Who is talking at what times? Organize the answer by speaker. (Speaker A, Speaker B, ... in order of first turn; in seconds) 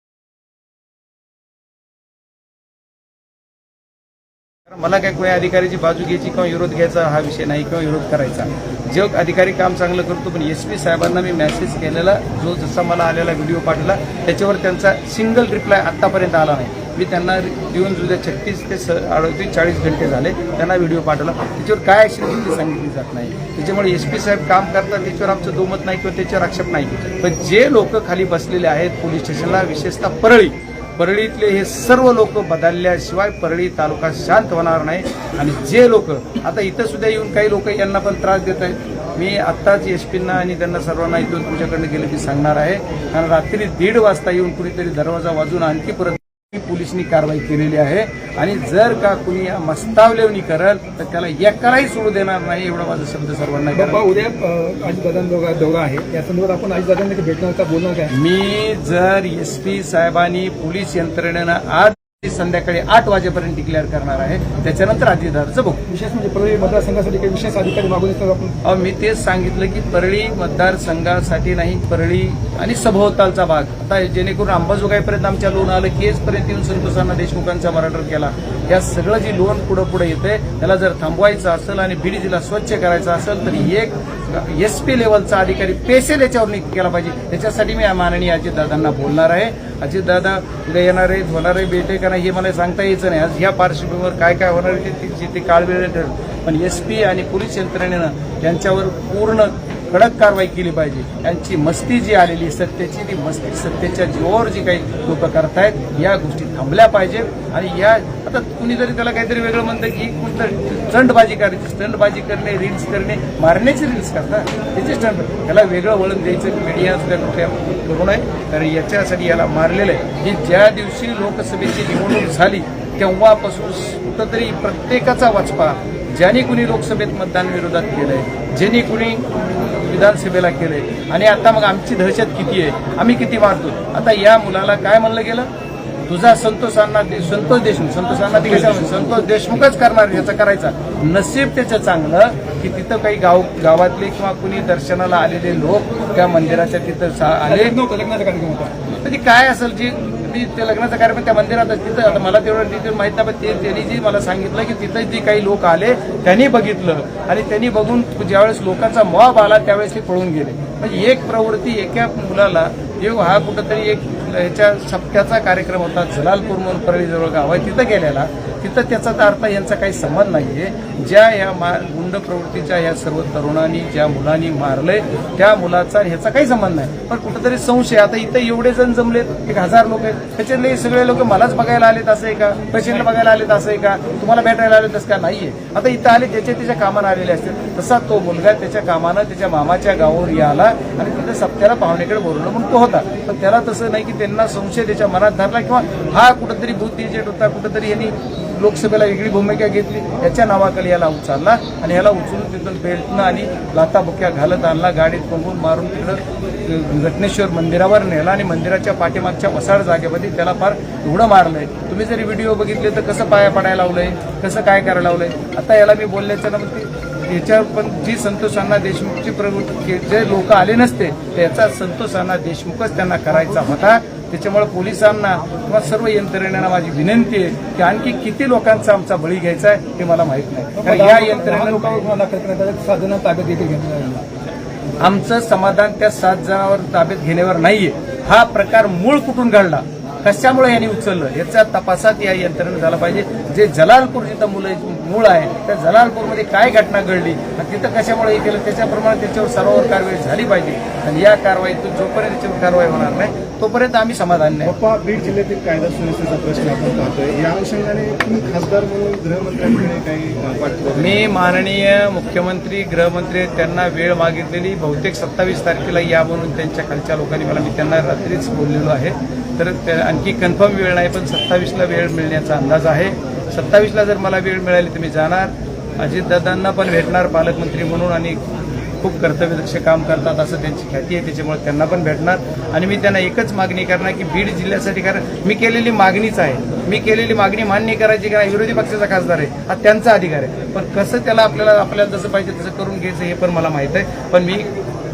Speaker A: 4.7-54.0, 58.1-65.8, 68.6-135.5, 136.1-147.7, 149.0-232.0, 235.0-254.7, 261.0-278.4, 279.0-294.7
Speaker B: 53.7-58.1, 65.8-68.5, 138.5-139.0, 147.4-148.8, 230.8-234.2
Speaker C: 254.6-261.2